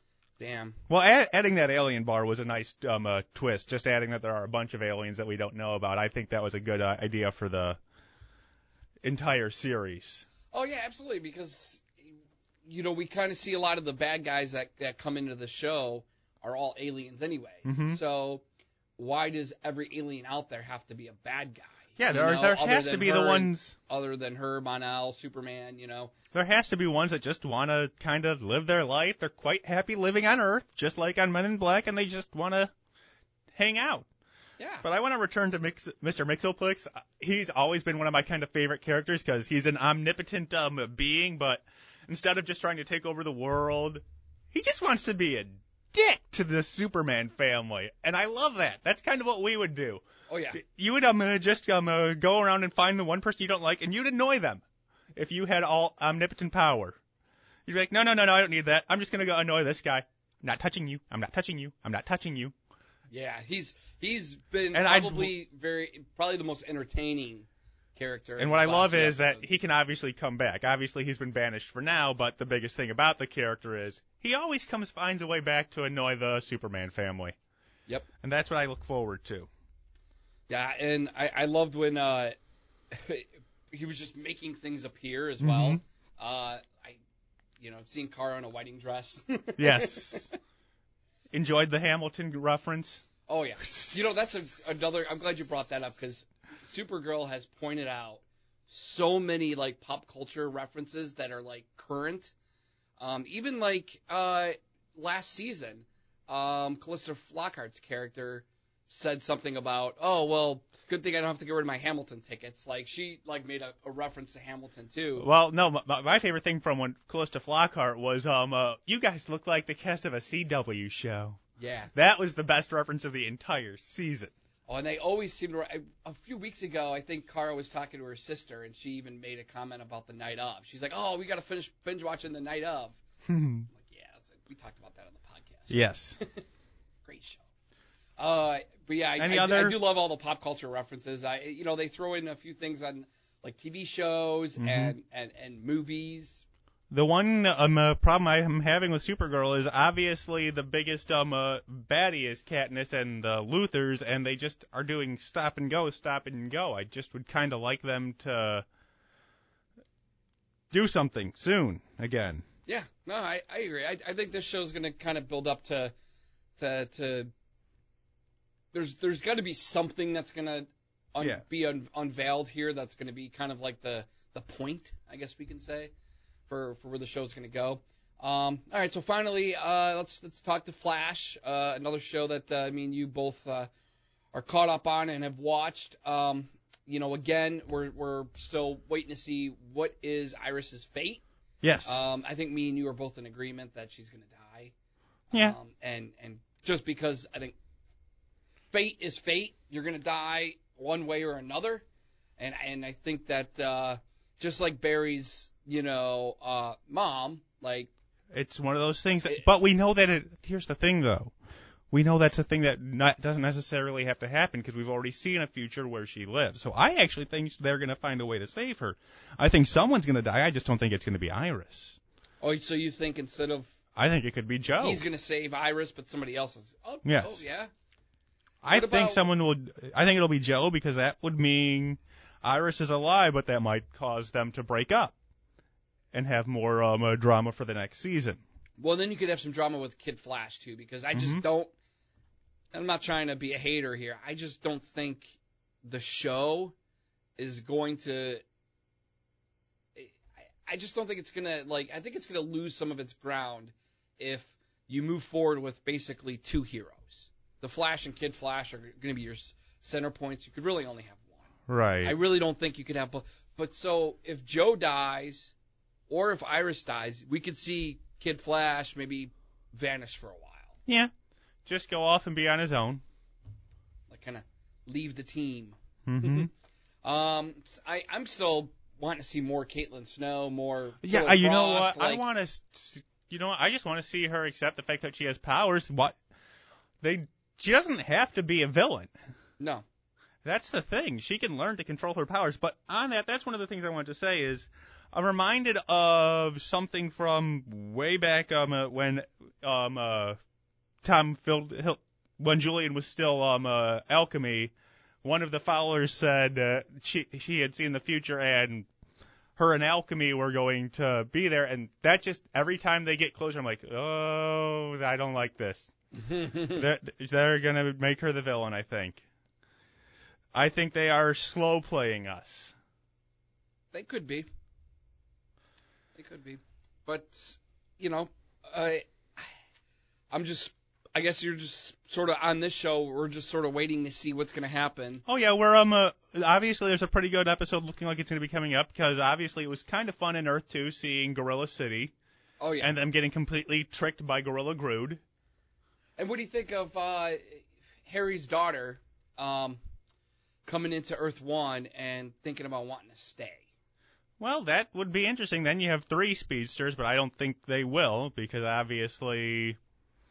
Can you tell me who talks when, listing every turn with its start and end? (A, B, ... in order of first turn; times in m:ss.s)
0:00.4-0:00.8 A
0:00.9-0:07.8 B
0:09.0-0:10.2 B
0:10.5-0:11.9 A
0:12.6-0:18.4 A
0:17.6-0:18.0 B
0:19.0-0:26.1 A
0:22.0-0:23.7 B
0:26.3-0:32.7 B
0:33.5-0:34.1 B
0:34.6-0:34.8 A
0:34.8-0:50.0 B
0:50.3-0:50.6 A
0:50.5-0:54.6 B
0:55.1-0:57.0 B
0:57.6-1:02.5 B
1:03.1-1:09.5 A
1:04.7-1:05.3 B
1:08.4-1:17.3 B
1:18.2-1:19.5 B
1:20.5-1:22.3 A
1:22.9-1:27.0 A
1:25.4-1:25.8 B
1:27.6-1:30.3 A
1:29.6-1:30.3 B
1:31.3-1:33.0 B
1:33.3-1:42.3 A
1:33.7-1:34.2 B
1:43.0-1:55.2 A
1:55.2-2:01.4 B
2:01.6-2:01.9 A
2:01.9-2:04.3 B
2:04.7-2:13.0 A
2:13.2-2:13.7 B
2:13.7-2:16.4 A
2:15.7-2:16.2 B
2:17.0-2:17.4 A
2:18.2-2:26.4 A
2:19.2-2:19.8 B
2:24.6-2:24.9 B
2:26.9-2:38.6 B
2:40.7-2:42.4 B
2:42.7-2:45.9 A
2:46.6-2:47.3 A
2:48.7-2:55.9 A
2:56.5-3:03.7 A
3:04.3-3:11.2 A
3:11.6-3:12.1 B
3:11.8-3:14.7 A
3:15.3-3:17.5 A
3:18.7-3:21.8 A
3:22.4-3:27.9 A
3:28.3-3:31.3 B
3:31.9-3:42.0 B
3:42.4-3:43.7 A
3:44.0-3:45.0 B
3:44.7-3:47.7 A
3:47.0-3:47.4 B
3:48.6-3:55.1 B
3:48.7-3:49.3 A
3:56.1-3:58.4 B
3:58.8-4:01.7 A
4:01.1-4:01.4 B
4:02.7-4:06.7 A
4:07.4-4:08.4 A
4:10.0-4:21.4 A
4:21.7-4:22.2 B
4:22.0-4:25.5 A
4:26.1-4:30.7 A
4:30.8-4:31.1 B
4:31.6-4:33.0 B
4:34.1-4:36.5 A
4:36.0-4:36.5 B
4:37.0-4:42.2 A
4:41.0-4:46.2 B
4:47.0-4:49.1 B
4:49.6-4:49.8 A
4:50.4-5:00.4 B
5:01.0-5:04.7 B
5:05.2-5:08.9 B
5:09.6-5:15.9 B
5:16.1-5:16.8 A
5:16.7-5:19.2 B
5:20.5-5:22.7 B
5:23.9-5:24.4 A
5:26.1-5:29.5 A
5:30.3-5:35.2 A
5:35.2-5:42.1 B
5:42.6-5:42.9 A
5:42.8-5:45.2 B
5:46.2-5:49.8 A
5:50.6-5:53.7 A
5:54.4-5:59.8 B